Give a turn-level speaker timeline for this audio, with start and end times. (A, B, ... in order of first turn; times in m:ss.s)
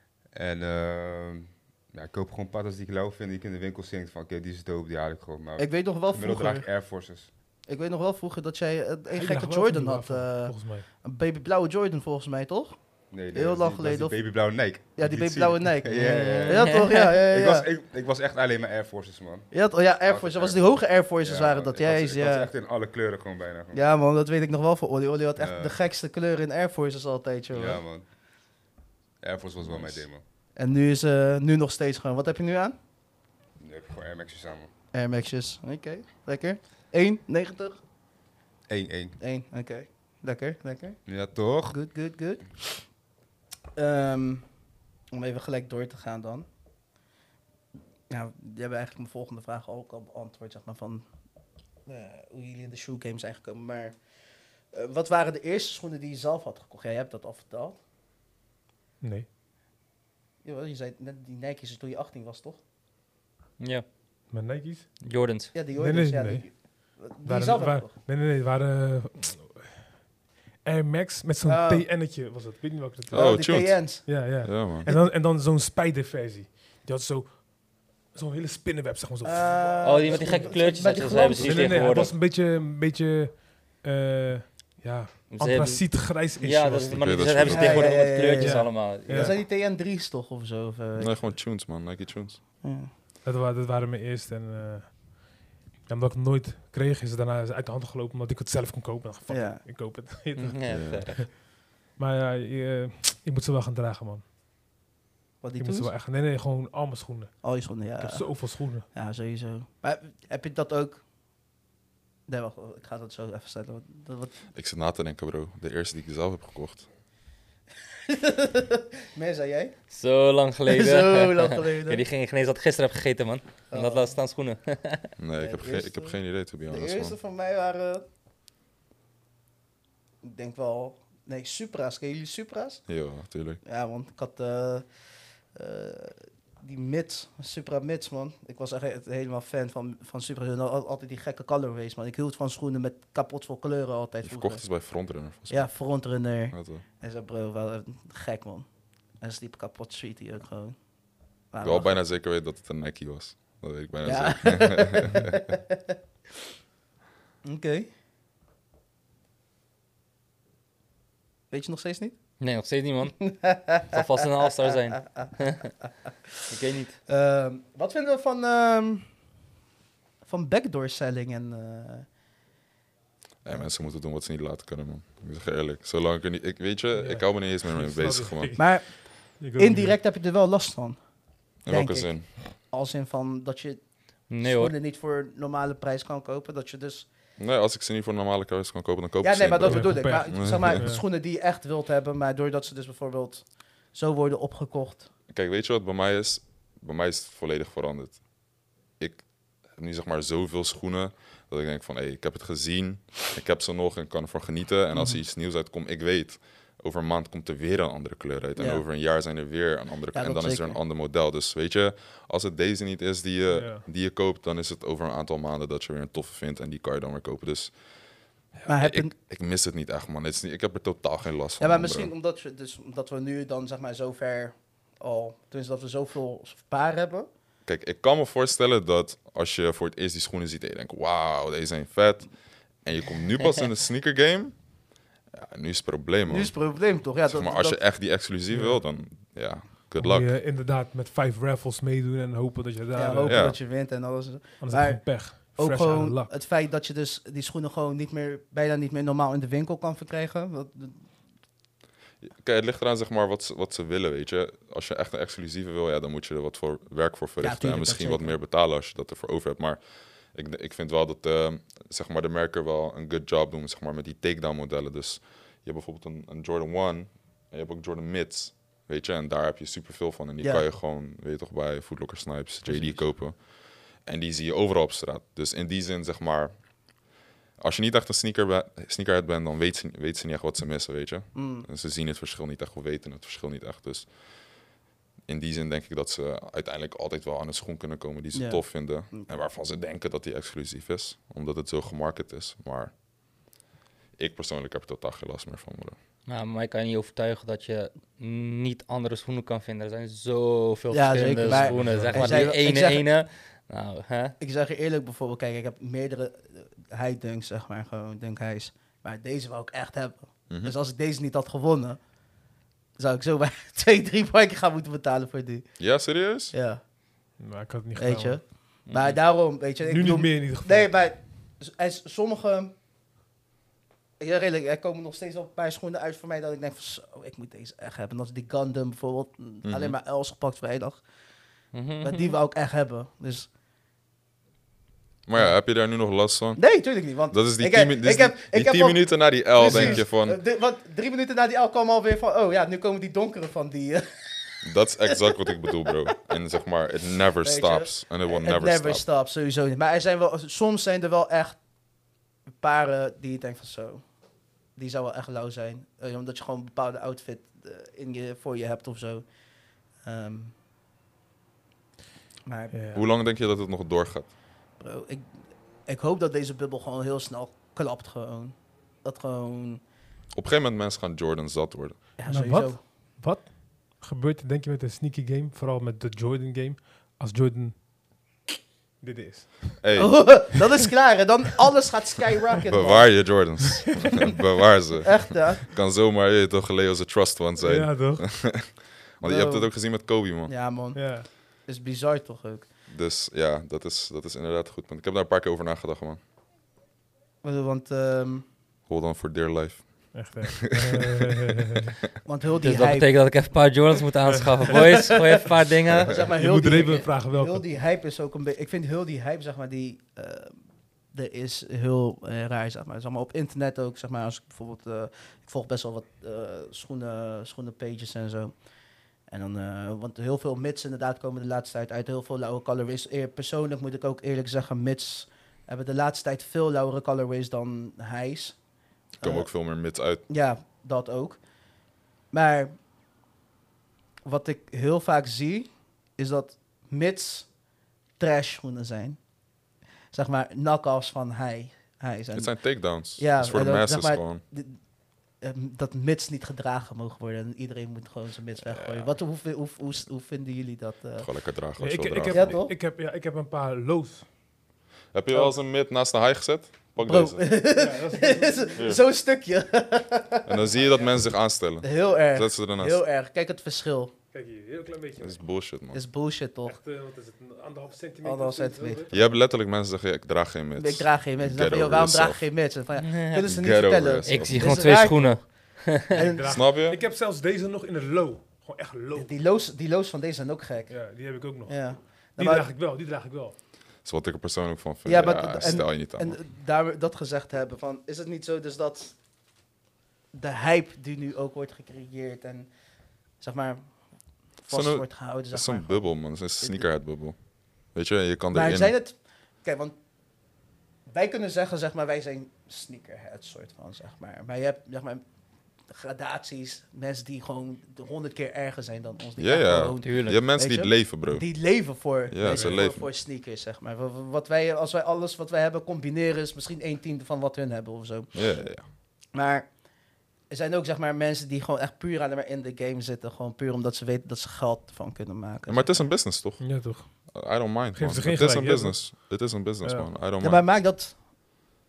0:00.3-0:07.3 A
0:05.6-0:06.7 B
0:07.6-0:17.7 B
0:09.1-0:10.9 C
0:13.1-0:23.8 A
0:16.0-0:16.6 D
0:19.5-0:22.5 B
0:23.7-0:27.8 B
0:25.4-0:25.8 A
0:27.5-0:28.1 A
0:29.2-0:30.2 A
0:29.7-0:30.0 E
0:30.6-0:32.8 B
0:33.6-0:34.7 A
0:34.9-0:37.8 B
0:38.7-0:39.2 A
0:39.2-0:41.1 B
0:41.1-0:41.8 A
0:41.7-0:42.8 B
0:43.8-0:44.6 B
0:45.1-0:46.5 B
0:48.1-0:51.1 B
0:51.9-0:54.0 B
0:54.7-0:57.8 B
0:59.0-0:59.3 C
1:00.4-1:02.6 B
1:03.6-1:03.8 D
1:04.3-1:05.0 C
1:05.0-1:05.6 D
1:05.5-1:07.9 B
1:05.6-1:09.9 C
1:10.6-1:20.5 C
1:11.4-1:11.9 B
1:13.1-1:14.9 E
1:13.1-1:15.0 B
1:19.2-1:22.0 B
1:19.8-1:22.1 D
1:21.3-1:29.4 C
1:25.3-1:29.4 D
1:27.0-1:27.9 E
1:27.5-1:31.4 B
1:31.0-1:32.4 E
1:32.6-1:32.9 B
1:33.2-1:35.3 C
1:35.8-1:41.4 C
1:39.3-1:39.6 B
1:40.4-1:41.2 D
1:40.7-1:41.1 E
1:42.0-1:44.2 C
1:45.4-1:45.9 B
1:45.6-1:48.9 C
1:47.4-1:51.0 B
1:52.3-1:54.4 B
1:54.6-1:56.9 E
1:58.1-1:59.8 B
1:59.9-2:05.1 D
2:00.7-2:02.0 B
2:03.7-2:04.2 B
2:05.2-2:07.2 E
2:05.4-2:08.0 B
2:10.2-2:12.9 B
2:12.9-2:13.6 E
2:13.6-2:14.9 B
2:15.5-2:30.9 B
2:24.2-2:26.8 E
2:31.5-2:32.0 B
2:31.6-2:35.4 E
2:34.0-2:35.7 B
2:37.4-2:37.9 B
2:41.5-2:42.2 B
2:42.4-2:45.8 D
2:43.2-2:44.0 B
2:46.5-2:47.0 D
2:47.1-2:49.1 B
2:50.2-2:52.1 B
2:53.4-2:58.7 E
2:56.9-3:00.0 C
2:58.6-3:07.1 B
3:01.6-3:02.3 E
3:04.3-3:04.7 D
3:07.4-3:10.9 E
3:09.2-3:15.1 B
3:09.6-3:11.0 C
3:15.3-3:37.8 E
3:28.6-3:28.8 B
3:30.1-3:30.8 B
3:33.5-3:33.8 C
3:38.5-3:42.1 E
3:38.7-3:39.1 B
3:41.6-3:47.3 B
3:47.6-4:00.4 E
3:56.3-3:57.8 B
3:58.5-3:58.8 C
4:00.0-4:03.7 C
4:02.9-4:11.1 B
4:03.2-4:03.6 E
4:04.6-4:06.3 C
4:12.2-4:36.9 E
4:17.4-4:18.4 B
4:30.4-4:30.7 B
4:32.7-4:33.0 B
4:32.7-4:33.0 C
4:37.6-4:44.2 E
4:41.4-4:41.7 B
4:45.3-4:52.9 E
4:48.3-4:49.3 B
4:54.2-4:56.0 E
4:56.3-5:04.4 D
5:00.9-5:03.1 B
5:01.6-5:02.4 C
5:04.4-5:12.0 B
5:10.5-5:10.7 E
5:13.0-5:15.9 B
5:15.8-5:16.6 E
5:16.5-5:16.8 B
5:17.4-5:18.5 C
5:18.0-5:22.7 B
5:18.9-5:19.2 D
5:19.8-5:21.1 C
5:24.2-5:31.0 B
5:29.6-5:30.0 E
5:31.7-5:32.4 D
5:32.0-5:33.5 B
5:35.3-5:40.4 E
5:36.6-5:45.4 B
5:39.6-5:40.0 C
5:44.6-5:49.0 E
5:47.4-5:51.6 B
5:52.5-5:54.1 B
5:54.8-5:59.3 B
6:00.0-6:00.5 B
6:02.5-6:02.8 B
6:02.7-6:03.0 C
6:02.9-6:04.3 E
6:04.8-6:09.8 B
6:10.3-6:12.1 E
6:12.2-6:12.8 B
6:12.2-6:17.9 C
6:19.0-6:20.3 C
6:19.8-6:20.5 E
6:19.9-6:23.8 B
6:22.7-6:30.6 E
6:25.0-6:25.6 B
6:27.6-6:28.3 C
6:29.2-6:32.7 B
6:30.9-6:31.3 C
6:32.9-6:36.2 E
6:37.4-6:38.5 B
6:38.9-6:41.3 E
6:40.1-6:41.9 C
6:42.2-6:43.5 B
6:42.6-6:46.2 D
6:44.3-6:45.0 C
6:44.7-6:45.1 B
6:46.0-6:50.6 B
6:46.3-6:47.7 C
6:51.1-6:58.6 B
6:59.3-7:08.6 B
7:09.2-7:10.2 E
7:09.2-7:11.4 B
7:12.3-7:12.8 B
7:14.2-7:17.5 B
7:18.2-7:19.2 B
7:20.1-7:24.8 B
7:22.3-7:24.4 E
7:25.4-7:31.3 B
7:28.6-7:29.2 E
7:31.2-7:32.5 E
7:31.8-7:34.3 C
7:32.2-7:32.8 B
7:35.1-7:37.5 E
7:37.0-7:41.0 B
7:37.7-7:39.0 C
7:40.5-7:43.0 E
7:41.8-7:44.1 B
7:44.3-7:45.4 C
7:45.2-7:46.0 E
7:45.9-7:46.8 B
7:46.6-7:49.4 C
7:48.2-7:49.0 B
7:49.1-7:52.5 E
7:50.8-7:56.5 B
7:53.0-7:53.5 D
7:53.5-7:55.0 E
7:54.3-7:56.1 D
7:56.1-7:59.3 C
7:56.4-7:57.0 E
7:59.1-8:02.7 B
8:00.9-8:03.5 C
8:04.0-8:06.4 E
8:05.0-8:09.2 B
8:10.3-8:12.7 B
8:13.4-8:16.9 B
8:14.7-8:19.0 E
8:18.5-8:20.0 B
8:21.1-8:25.2 B
8:25.9-8:39.8 B
8:29.4-8:33.1 E
8:30.0-8:30.4 D
8:32.4-8:32.8 C
8:38.3-8:38.9 E
8:40.5-8:46.0 B
8:45.7-8:50.7 E
8:46.6-8:47.3 C
8:47.9-8:50.1 C
8:50.4-8:51.4 B